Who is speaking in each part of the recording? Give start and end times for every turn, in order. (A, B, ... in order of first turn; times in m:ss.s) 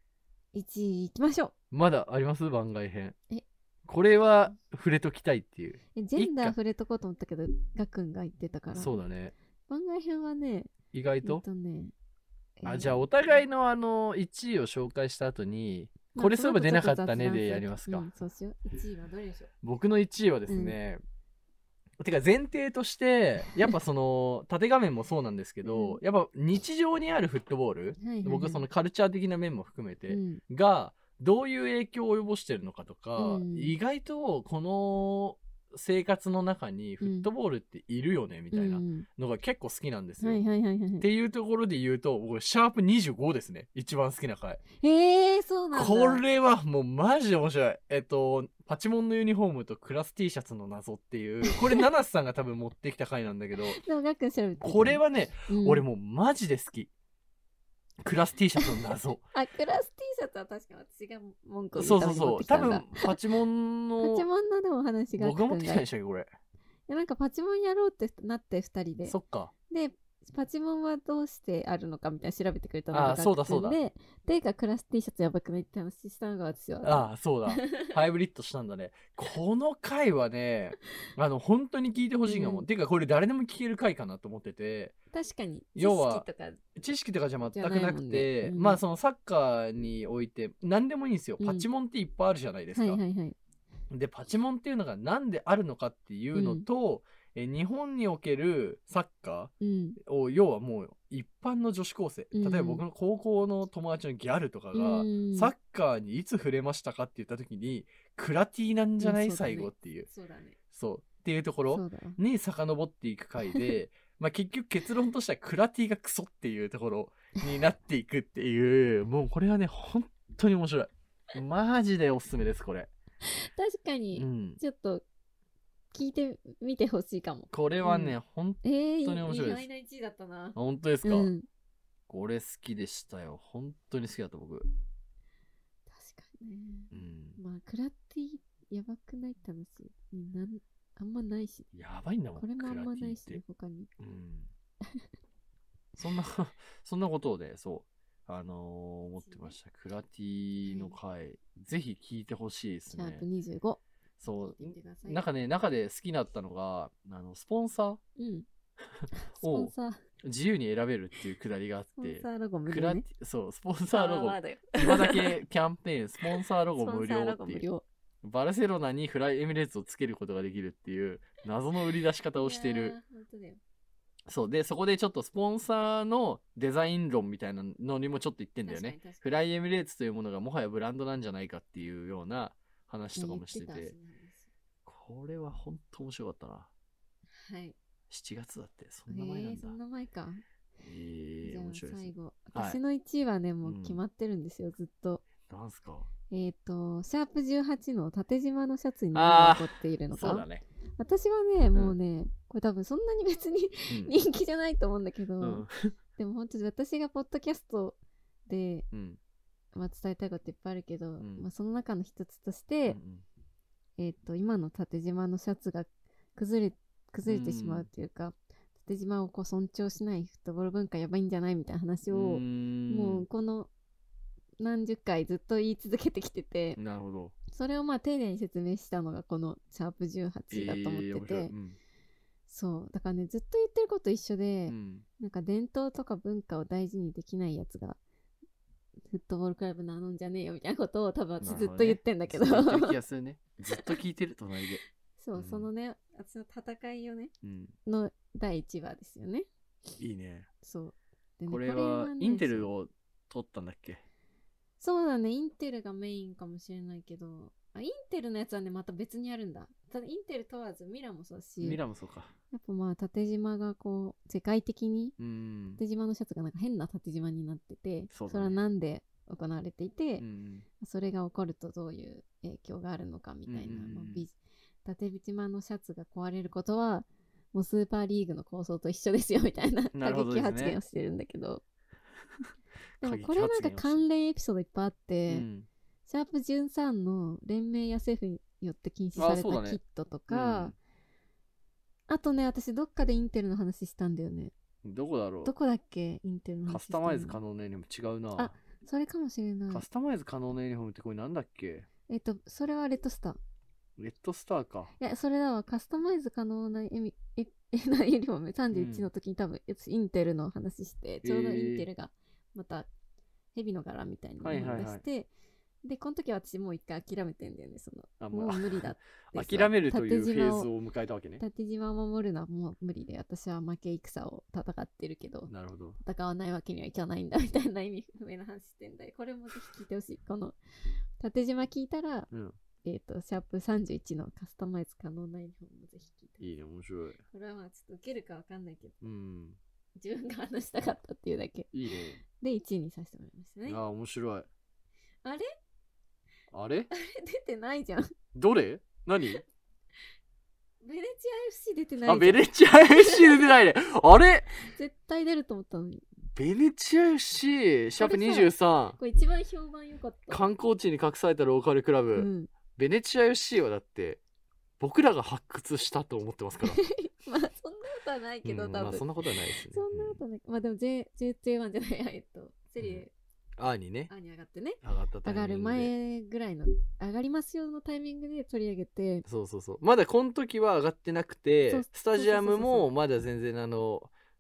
0:00.5-0:01.5 A
0:01.7-0:03.2 B
0:03.9-0:06.6 B
0:06.0-0:09.0 A
0:08.7-0:09.4 B
0:09.7-0:10.7 A
0:10.9-0:11.4 B
0:11.2-0:11.9 A
0:12.6-0:13.1 A
0:12.6-0:18.1 B
0:16.2-0:19.5 A
0:19.6-0:21.0 B
0:20.5-0:20.8 A
0:22.0-0:40.4 B
0:25.6-0:26.0 A
0:28.0-0:28.6 A
0:30.1-0:30.4 A
0:33.2-0:33.8 A
0:37.0-0:37.3 A
0:38.5-0:39.1 A
0:40.2-0:41.1 A
0:41.0-0:44.6 B
0:44.8-0:46.2 A
0:45.7-0:53.8 B
0:51.4-0:51.8 A
0:53.8-0:55.8 A
0:54.6-0:56.9 B
0:58.0-0:59.2 B
0:58.6-1:03.2 A
1:01.8-1:04.3 B
1:04.0-1:05.8 A
1:05.2-1:06.3 B
1:06.9-1:09.2 A
1:09.1-1:09.5 B
1:09.7-1:17.9 A
1:12.9-1:13.8 B
1:16.8-1:25.0 B
1:22.3-1:22.7 A
1:25.1-1:26.6 A
1:25.8-1:33.0 B
1:27.5-1:28.8 A
1:31.4-1:31.7 A
1:32.8-1:33.4 A
1:33.9-1:50.1 B
1:36.3-1:36.7 A
1:39.6-1:40.0 A
1:42.3-1:42.8 A
1:44.7-1:45.5 A
1:49.0-1:50.6 A
1:50.7-2:02.9 B
1:51.7-1:52.2 A
2:03.2-2:05.0 A
2:04.2-2:04.6 B
2:05.9-2:11.5 A
2:07.5-2:09.7 B
2:10.6-2:11.3 B
2:12.1-2:14.7 B
2:15.9-2:21.7 A
2:16.9-2:17.4 B
2:21.7-2:23.4 B
2:22.4-2:23.9 A
2:24.0-2:24.5 B
2:26.0-2:33.3 B
2:29.2-2:29.6 A
2:30.6-2:30.9 A
2:32.9-2:33.8 A
2:34.2-2:38.0 B
2:34.4-2:35.2 A
2:38.2-2:38.5 A
2:39.1-2:40.0 A
2:39.4-2:47.7 B
2:42.0-2:43.1 A
2:43.9-2:45.4 A
2:46.3-2:47.8 A
2:48.2-2:53.0 B
2:52.4-2:53.6 A
2:54.3-3:04.0 B
2:58.6-2:59.3 A
3:03.2-3:04.5 A
3:04.9-3:06.7 B
3:07.4-3:07.8 A
3:08.1-3:09.8 B
3:09.1-3:10.4 A
3:10.8-3:12.8 B
3:11.4-3:15.2 A
3:13.6-3:14.0 B
3:15.4-3:16.1 B
3:16.3-3:20.5 A
3:19.1-3:20.6 B
3:21.0-3:28.9 A
3:25.4-3:25.9 B
3:28.9-3:29.2 B
3:29.7-3:33.0 A
3:31.2-3:31.5 B
3:32.9-3:33.2 B
3:34.0-3:43.7 A
3:37.3-3:37.9 B
3:42.1-3:43.3 B
3:44.6-3:46.8 A
3:46.8-3:47.4 B
3:47.5-3:51.5 A
3:50.5-3:51.8 B
3:52.5-3:58.0 A
3:54.7-3:55.0 B
3:59.1-4:03.0 A
4:01.4-4:04.8 B
4:03.7-4:04.0 A
4:05.2-4:07.3 A
4:05.4-4:05.7 B
4:07.4-4:07.7 B
4:07.9-4:09.5 A
4:10.0-4:10.5 B
4:10.6-4:12.7 A
4:11.5-4:14.0 B
4:14.8-4:21.8 A
4:21.6-4:22.4 B
4:22.5-4:25.2 A
4:25.2-4:25.8 B
4:25.8-4:30.2 A
4:28.1-4:28.6 B
4:30.2-4:30.7 B
4:30.8-4:41.6 A
4:33.5-4:34.3 B
4:39.9-4:40.8 B
4:43.0-4:44.0 B
4:43.0-4:45.5 A
4:45.3-4:45.7 B
4:46.1-4:50.8 A
4:49.2-4:50.8 B
4:52.1-4:54.5 A
4:54.8-4:55.5 B
4:55.4-4:57.4 A
4:56.7-4:58.6 B
4:58.4-4:59.8 A
4:59.7-5:01.9 B
5:02.1-5:03.4 A
5:04.0-5:04.9 B
5:05.0-5:12.9 A
5:08.7-5:09.1 B
5:11.2-5:11.9 B
5:13.5-5:15.3 A
5:14.4-5:15.0 B
5:15.8-5:20.7 A
5:18.2-5:21.4 B
5:21.4-5:30.6 A
5:25.5-5:26.0 B
5:31.2-5:32.3 A
5:32.3-5:32.6 B
5:32.8-5:36.5 A
5:36.4-5:37.2 B
5:37.3-5:39.0 A
5:39.0-5:39.6 B
5:40.0-5:41.7 A
5:41.7-5:42.2 B
5:42.2-5:43.8 A
5:43.7-5:44.5 B
5:46.5-5:46.9 B
5:46.9-5:48.1 A
5:48.4-5:49.4 B
5:50.8-5:53.5 A
5:52.0-5:54.5 B
5:54.6-5:56.0 A
5:56.4-5:59.0 B
5:58.0-6:00.5 A
6:00.3-6:04.2 B
6:02.2-6:02.5 A
6:04.8-6:06.8 B
6:06.6-6:09.1 A
6:08.4-6:10.2 B
6:09.6-6:13.1 A
6:13.6-6:14.1 B
6:14.1-6:19.3 A
6:14.8-6:15.9 B
6:19.3-6:24.1 B
6:21.7-6:22.9 A